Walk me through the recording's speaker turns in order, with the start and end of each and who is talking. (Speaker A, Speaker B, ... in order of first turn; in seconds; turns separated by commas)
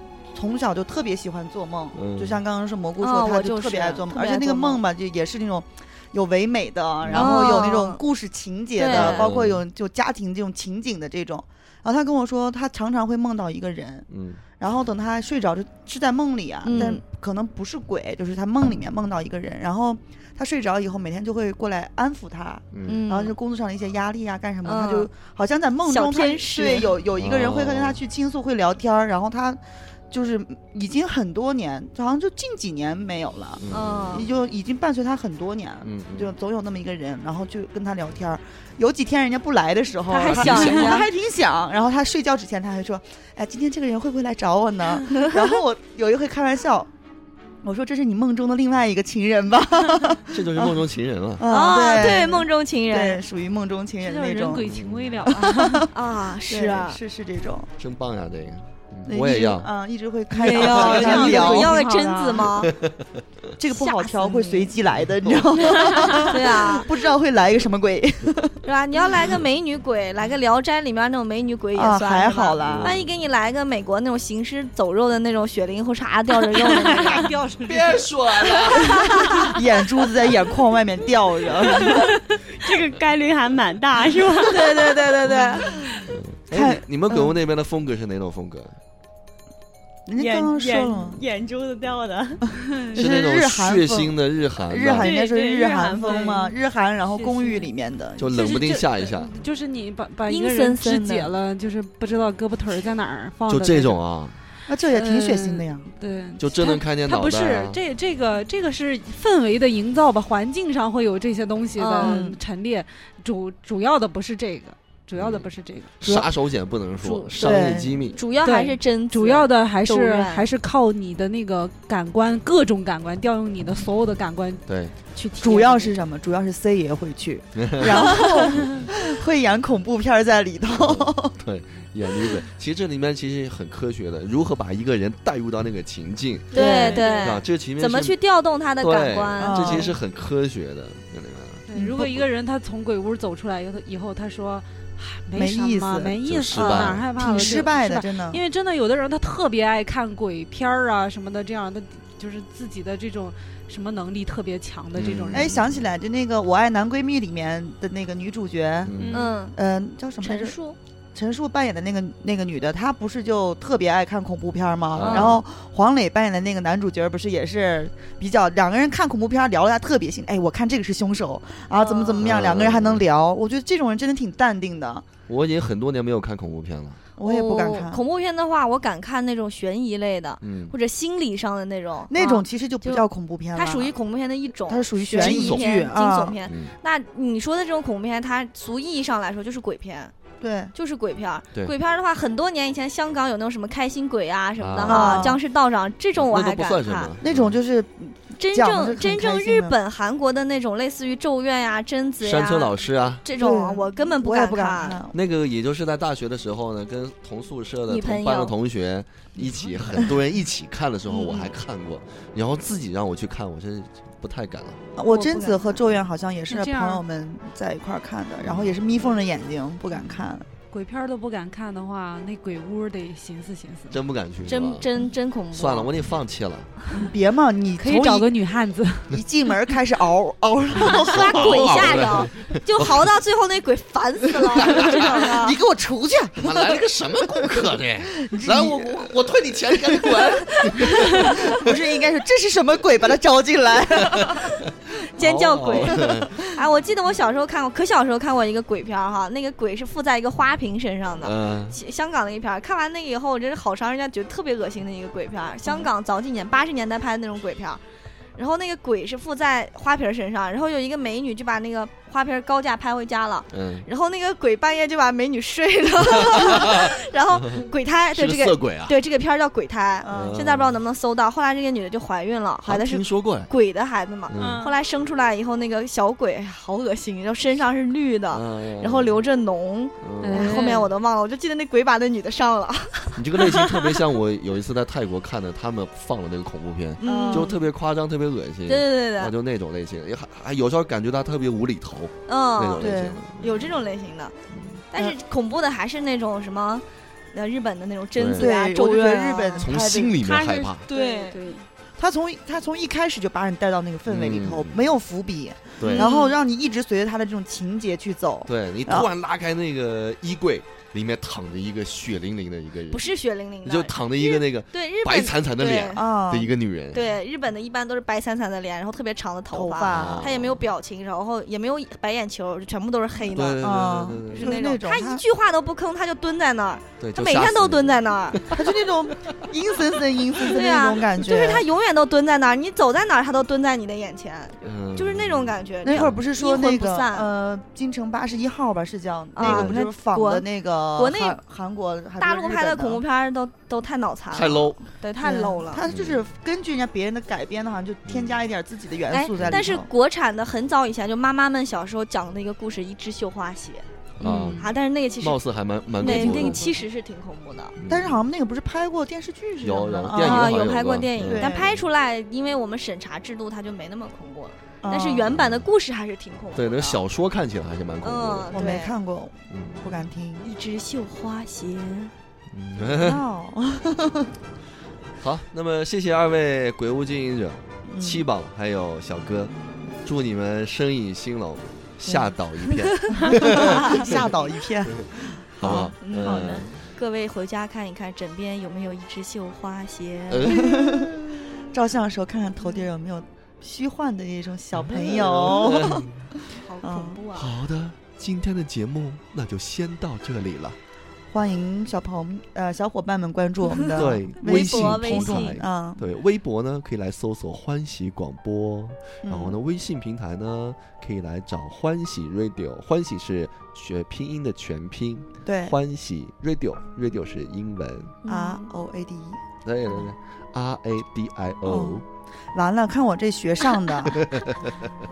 Speaker A: 0.3-46.9, Speaker B: 1.9-2.4, Speaker C: 3.0-4.8, Speaker B: 7.0-7.5, Speaker C: 7.1-8.0, Speaker C: 8.8-9.3, Speaker B: 8.8-9.6, Speaker B: 14.1-14.4, Speaker C: 16.6-17.0, Speaker B: 22.7-23.0, Speaker C: 22.8-23.3, Speaker C: 24.6-25.1, Speaker C: 25.9-26.9, Speaker B: 27.2-28.0, Speaker B: 33.6-34.2, Speaker C: 33.7-34.3, Speaker B: 35.8-36.3, Speaker C: 40.1-41.1, Speaker B: 40.2-41.0, Speaker A: 47.6-50.8, Speaker B: 50.3-51.5, Speaker A: 51.4-54.6, Speaker C: 51.5-53.2, Speaker D: 54.0-55.9, Speaker B: 54.6-55.3, Speaker A: 55.3-57.7, Speaker C: 55.9-57.0, Speaker B: 57.8-59.7, Speaker A: 59.0-62.6, Speaker C: 60.4-62.7, Speaker D: 60.4-62.4, Speaker E: 60.9-61.5, Speaker B: 62.6-63.2, Speaker A: 63.6-68.6, Speaker C: 63.7-64.7, Speaker C: 65.8-66.9, Speaker C: 68.6-77.3, Speaker A: 71.7-73.0, Speaker B: 72.6-73.0, Speaker D: 76.7-79.5, Speaker B: 77.7-79.1, Speaker A: 79.5-82.0, Speaker E: 81.8-84.7, Speaker A: 84.4-87.3, Speaker C: 85.0-85.3, Speaker B: 86.1-88.8, Speaker A: 90.1-91.2, Speaker E: 90.2-92.5, Speaker A: 92.9-94.1, Speaker B: 92.9-95.1, Speaker A: 94.7-98.5, Speaker E: 95.0-96.5, Speaker D: 97.1-97.7, Speaker B: 98.2-99.3, Speaker D: 98.3-104.0, Speaker C: 100.3-101.3, Speaker B: 103.5-104.4, Speaker A: 104.7-105.9, Speaker D: 104.9-116.3, Speaker B: 106.4-107.8, Speaker C: 111.8-112.2, Speaker A: 112.0-112.4, Speaker B: 115.2-118.2, Speaker C: 117.0-120.5, Speaker A: 117.4-118.1, Speaker D: 118.4-125.9, Speaker B: 124.7-124.9, Speaker A: 125.4-131.3, Speaker B: 127.5-128.0, Speaker C: 127.9-128.5, Speaker B: 130.8-136.5, Speaker C: 136.5-139.9, Speaker A: 136.5-137.1, Speaker E: 136.5-137.2, Speaker B: 137.2-138.2, Speaker B: 138.8-141.6, Speaker A: 139.4-140.0, Speaker D: 141.7-155.5, Speaker A: 141.7-142.2, Speaker A: 145.3-148.4, Speaker B: 146.2-147.1, Speaker B: 154.9-155.8, Speaker A: 155.3-158.9, Speaker B: 158.8-159.4, Speaker E: 158.9-159.4, Speaker C: 159.1-159.6, Speaker A: 159.5-160.6, Speaker C: 160.2-160.8, Speaker A: 161.1-175.1, Speaker B: 164.9-165.4, Speaker C: 165.0-165.4, Speaker C: 171.7-172.3, Speaker B: 172.2-173.0, Speaker B: 175.3-177.0, Speaker A: 177.2-178.0, Speaker C: 177.2-190.1, Speaker B: 180.4-180.7, Speaker A: 182.1-183.9, Speaker A: 184.7-186.4, Speaker B: 185.2-185.8, Speaker B: 186.4-186.7, Speaker A: 190.4-190.7, Speaker C: 190.7-197.2, Speaker B: 194.6-195.3, Speaker A: 194.8-195.4, Speaker B: 196.2-197.6, Speaker A: 197.2-199.8, Speaker C: 198.4-205.0, Speaker B: 202.2-203.2, Speaker A: 203.3-205.1, Speaker B: 205.1-214.8, Speaker C: 207.9-208.5, Speaker D: 209.4-209.7, Speaker A: 214.9-220.5, Speaker C: 215.1-215.9, Speaker D: 216.5-217.0, Speaker B: 218.4-218.8, Speaker D: 220.7-224.0, Speaker B: 223.9-224.9, Speaker C: 224.5-225.9, Speaker B: 225.5-226.7, Speaker A: 226.9-228.3, Speaker D: 227.8-229.2, Speaker A: 229.1-232.1, Speaker B: 230.8-233.1, Speaker C: 231.0-235.6, Speaker A: 234.5-244.6, Speaker B: 234.6-235.1, Speaker B: 236.4-241.7, Speaker B: 244.0-246.4, Speaker C: 245.0-257.8, Speaker A: 245.9-246.4, Speaker B: 251.2-251.8, Speaker C: 258.4-284.0, Speaker B: 263.5-263.9, Speaker B: 266.1-266.9, Speaker B: 267.6-269.0, Speaker A: 270.0-270.4, Speaker B: 270.1-270.8, Speaker B: 272.6-273.5, Speaker B: 274.3-274.7, Speaker E: 274.4-274.7, Speaker B: 278.3-279.2, Speaker B: 280.0-280.7, Speaker D: 280.2-280.9, Speaker B: 283.2-293.8, Speaker C: 287.0-287.6, Speaker A: 287.0-287.5, Speaker C: 288.7-289.3, Speaker C: 292.3-294.4, Speaker A: 292.8-293.2, Speaker B: 294.5-294.8, Speaker C: 294.9-299.7, Speaker B: 298.1-298.5, Speaker A: 298.4-300.2, Speaker B: 299.6-300.9, Speaker E: 300.2-301.7, Speaker C: 300.9-301.4, Speaker A: 302.0-309.1, Speaker B: 304.1-304.8, Speaker B: 305.8-306.1, Speaker C: 305.9-306.3, Speaker B: 308.5-313.1, Speaker C: 312.9-316.0, Speaker B: 313.6-317.1, Speaker A: 315.9-316.5, Speaker C: 316.9-323.8, Speaker A: 319.5-320.3, Speaker B: 319.9-320.6, Speaker B: 323.3-324.6, Speaker A: 323.6-325.2, Speaker C: 324.3-328.5, Speaker B: 327.0-328.6, Speaker A: 328.5-331.6, Speaker C: 330.4-337.3, Speaker B: 334.6-336.2, Speaker A: 335.8-343.0, Speaker C: 339.4-340.4, Speaker B: 339.4-339.8, Speaker C: 340.9-341.4, Speaker C: 342.2-345.8, Speaker B: 344.3-344.8, Speaker A: 345.2-349.9, Speaker B: 345.8-346.2, Speaker B: 348.1-348.4, Speaker C: 349.1-353.9, Speaker B: 349.3-349.7, Speaker B: 354.2-356.7, Speaker D: 354.2-354.7, Speaker C: 354.6-355.4, Speaker C: 356.0-357.8, Speaker A: 356.0-356.6, Speaker B: 357.8-358.2, Speaker A: 357.9-360.6, Speaker B: 359.6-361.8, Speaker C: 360.1-367.0, Speaker A: 361.2-361.8, Speaker A: 364.8-365.3, Speaker B: 365.3-365.6, Speaker B: 366.5-368.6, Speaker C: 368.0-368.9, Speaker A: 368.5-370.5, Speaker B: 369.5-369.8, Speaker C: 370.4-372.1, Speaker B: 372.5-373.2, Speaker A: 373.0-374.3, Speaker B: 375.2-379.5, Speaker A: 377.9-378.2, Speaker B: 380.0-384.2, Speaker A: 382.1-382.3, Speaker C: 383.0-384.5, Speaker A: 383.2-386.7, Speaker B: 385.6-386.8, Speaker C: 385.6-391.1, Speaker B: 390.3-391.0, Speaker A: 390.5-397.2, Speaker B: 394.8-396.3, Speaker C: 396.5-397.6, Speaker B: 397.3-400.8, Speaker A: 401.3-406.0, Speaker C: 403.8-405.6, Speaker B: 403.9-418.2, Speaker A: 409.2-409.6, Speaker A: 415.4-415.8, Speaker C: 418.2-418.7, Speaker A: 418.2-419.4, Speaker B: 419.6-422.0, Speaker A: 421.6-422.0, Speaker A: 422.5-424.3, Speaker B: 424.1-424.9